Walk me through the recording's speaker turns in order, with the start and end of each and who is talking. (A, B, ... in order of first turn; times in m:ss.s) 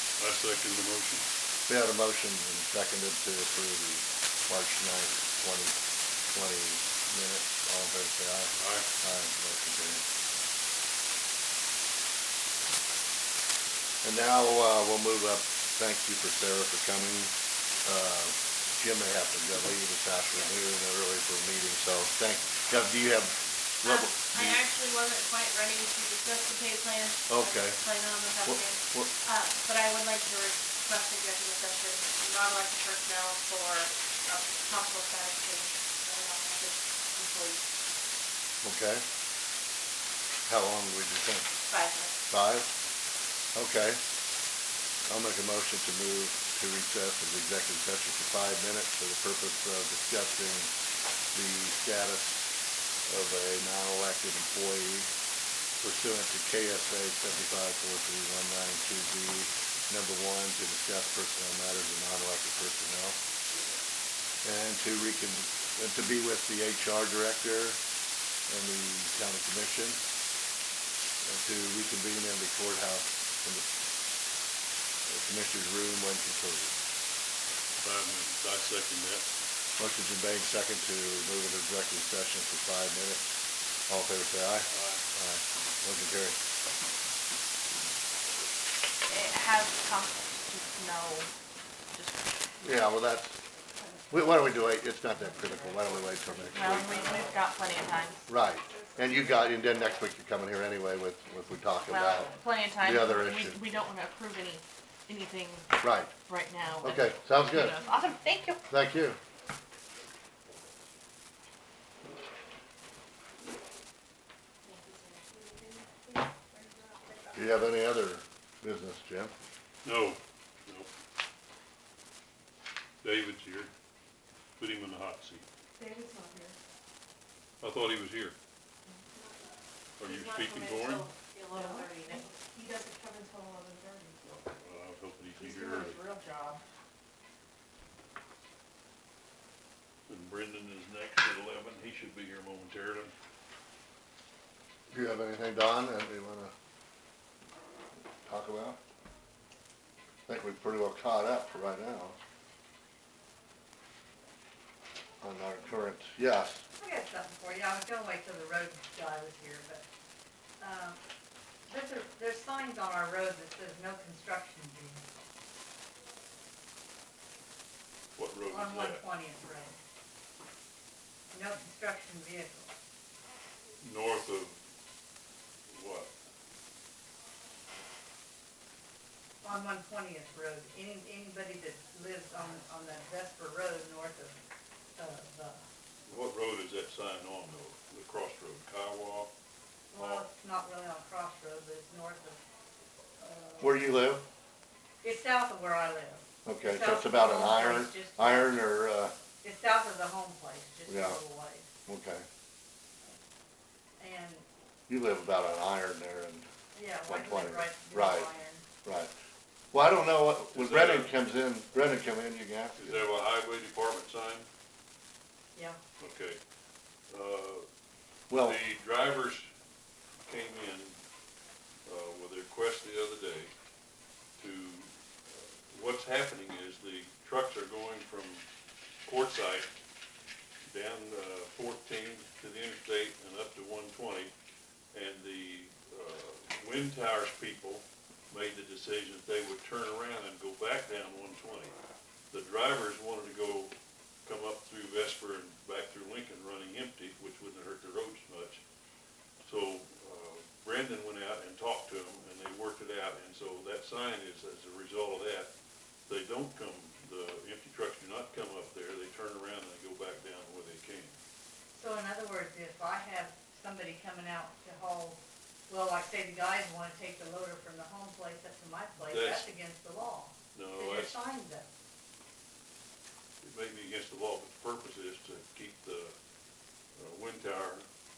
0:00.2-0:01.3 A
0:01.7-0:05.8 B
0:06.3-0:10.0 B
0:08.5-0:08.9 A
0:14.0-0:17.3 B
0:17.8-0:24.6 B
0:23.8-0:37.7 C
0:27.3-0:27.8 B
0:28.4-0:29.1 B
0:38.6-0:39.0 B
0:40.5-0:41.5 B
0:41.7-0:42.2 C
0:42.3-0:42.7 B
0:43.5-0:44.0 B
0:45.1-0:50.7 B
0:51.3-0:52.5 B
0:53.1-0:55.1 B
0:55.8-1:03.2 B
1:04.4-1:07.8 B
1:08.5-1:10.0 B
1:11.2-1:13.6 B
1:15.1-1:16.7 B
1:17.8-1:19.3 A
1:19.8-1:23.3 B
1:23.9-1:26.4 B
1:24.7-1:25.0 A
1:29.1-1:31.3 C
1:31.9-1:32.2 C
1:32.6-1:33.4 B
1:34.1-1:36.9 B
1:36.5-1:38.3 C
1:36.8-1:37.1 D
1:38.3-1:43.6 B
1:41.9-1:45.7 C
1:45.8-1:46.1 B
1:46.3-1:48.6 C
1:46.8-1:47.8 B
1:48.7-1:49.2 B
1:54.6-1:57.4 C
1:57.3-1:59.3 B
1:59.8-2:00.9 A
2:03.0-2:03.7 A
2:04.6-2:05.5 A
2:05.8-2:06.2 D
2:07.6-2:08.4 A
2:10.0-2:11.1 A
2:10.0-2:12.4 C
2:11.6-2:12.6 D
2:11.6-2:11.9 E
2:12.5-2:14.1 E
2:13.3-2:13.8 D
2:14.2-2:16.0 A
2:20.1-2:23.1 A
2:24.9-2:26.5 B
2:28.2-2:28.8 B
2:30.3-2:32.2 B
2:35.2-2:36.6 B
2:36.8-2:39.8 D
2:40.6-2:41.0 D
2:41.7-2:45.0 D
2:48.2-2:49.0 A
2:48.5-2:49.8 D
2:51.3-2:52.7 D
2:53.8-2:54.6 A
2:55.7-2:56.1 A
2:59.4-3:04.4 D
3:05.0-3:05.6 D
3:06.1-3:09.3 A
3:09.9-3:12.4 D
3:10.0-3:10.2 A
3:13.2-3:13.8 D
3:13.6-3:14.2 B
3:15.0-3:18.6 D
3:16.4-3:19.1 B
3:19.4-3:21.7 D
3:20.9-3:21.2 B
3:21.9-3:22.2 B
3:24.0-3:24.4 D
3:24.9-3:26.5 B
3:26.7-3:28.6 D
3:27.1-3:28.3 B
3:28.8-3:29.1 B
3:29.7-3:33.0 B
3:30.5-3:31.2 A
3:32.8-3:34.5 A
3:35.6-3:35.8 D
3:36.0-3:36.4 A
3:37.1-3:37.7 A
3:38.3-3:38.6 B
3:38.4-3:39.5 A
3:40.3-3:41.0 A
3:41.8-3:43.5 A
3:44.4-3:44.9 A
3:45.7-3:48.4 A
3:49.0-3:49.7 A
3:50.7-3:54.3 A
3:54.9-4:01.8 A
4:02.3-4:03.7 A
4:04.2-4:08.6 A
4:09.4-4:15.5 A
4:16.1-4:21.1 A
4:21.7-4:31.7 D
4:29.1-4:29.5 A
4:30.5-4:31.2 A
4:33.4-4:36.1 A
4:37.0-4:37.8 A